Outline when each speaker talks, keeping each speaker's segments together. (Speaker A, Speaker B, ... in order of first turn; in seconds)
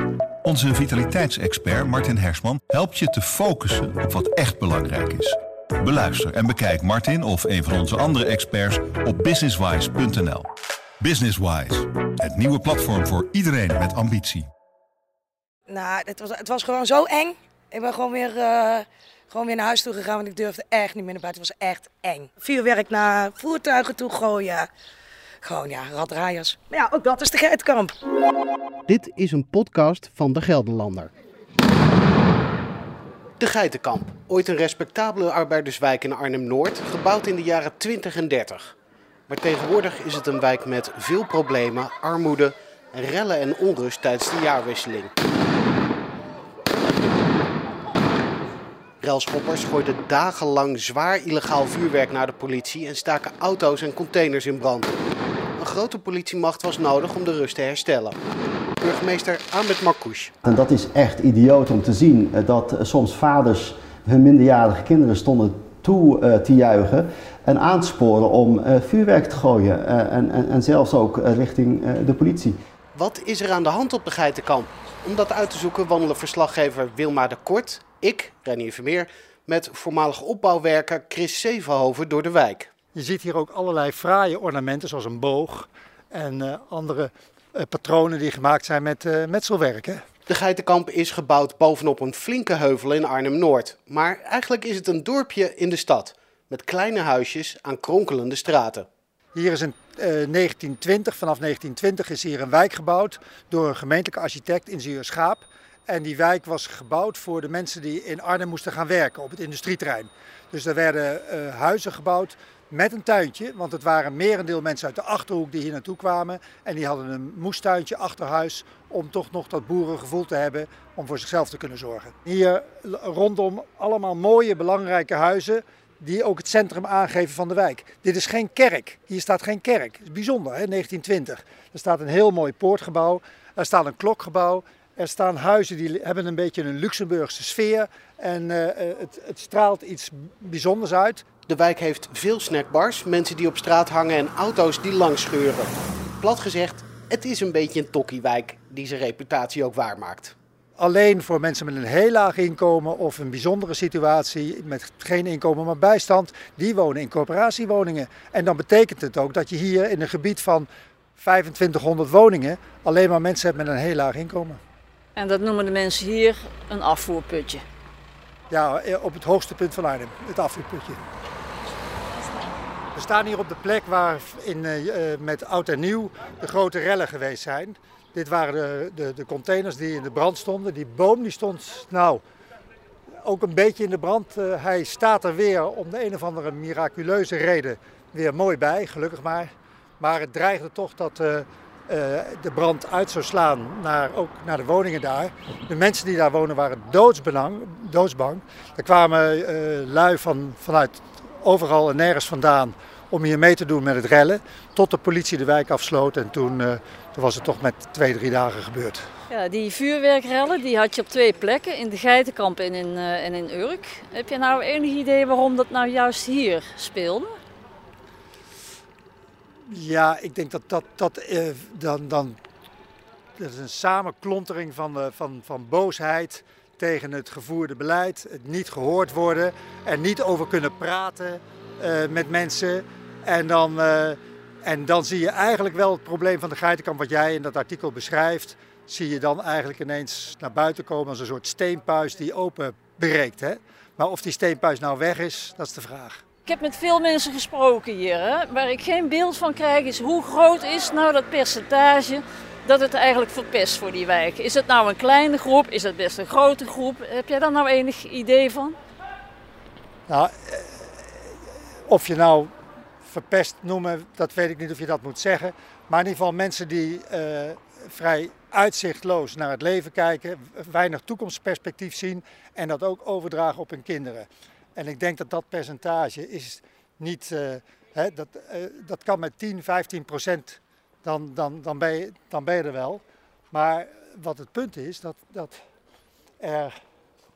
Speaker A: 0.4-10.5, 11.0-14.5
Speaker B: 15.7-24.7, 25.4-27.9
Speaker C: 28.9-31.1, 33.4-38.7, 39.3-45.1, 49.0-54.9, 55.6-58.2, 58.8-60.3, 72.9-82.7, 90.3-98.9, 141.5-150.3
Speaker D: 60.4-72.6
Speaker E: 82.9-90.0, 99.3-141.2, 150.8-164.6, 168.5-171.0, 172.9-182.2, 183.2-209.0, 219.7-222.4, 223.4-246.2, 260.1-261.0, 261.9-262.5, 263.0-285.6, 286.4-286.7
Speaker F: 165.2-167.6, 209.3-217.3, 246.4-258.8